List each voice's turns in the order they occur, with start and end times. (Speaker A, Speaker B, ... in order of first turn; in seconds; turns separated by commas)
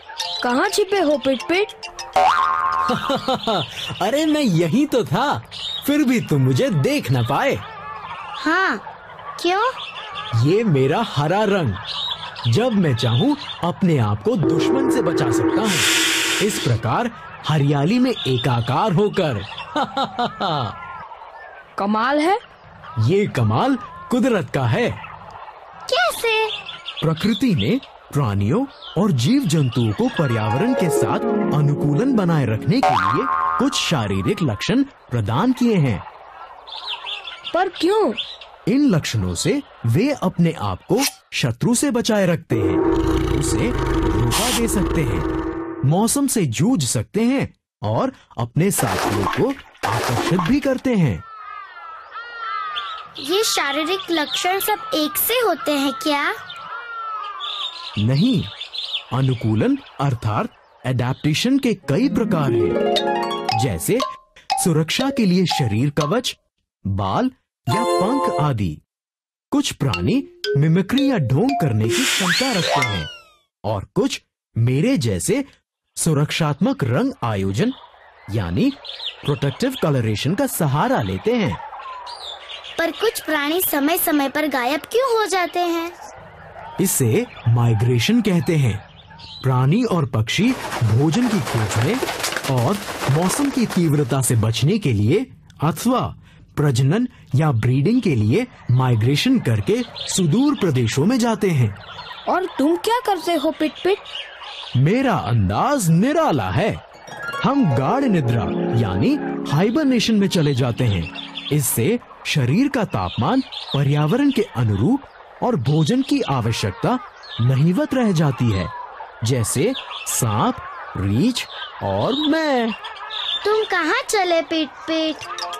Speaker A: 0.4-1.7, Speaker B: 2.8-7.6, Speaker C: 8.4-8.8, Speaker C: 9.4-9.7, Speaker B: 10.3-11.8, Speaker B: 12.5-20.7, Speaker A: 21.8-22.4, Speaker B: 23.0-25.0, Speaker C: 25.9-26.5, Speaker B: 27.0-36.0, Speaker A: 37.5-38.2, Speaker B: 38.7-45.3, Speaker B: 45.8-51.2, Speaker C: 53.2-56.3, Speaker B: 58.0-58.5, Speaker B: 59.1-62.8, Speaker B: 63.5-64.0, Speaker B: 64.6-68.8, Speaker B: 69.5-73.1, Speaker B: 73.6-75.5, Speaker B: 76.0-77.8, Speaker B: 78.3-81.6, Speaker C: 82.8-85.9, Speaker B: 86.8-88.8, Speaker B: 89.4-101.8, Speaker A: 102.3-104.0, Speaker B: 104.8-106.8, Speaker B: 107.4-118.7, Speaker B: 119.2-122.8, Speaker C: 123.4-125.3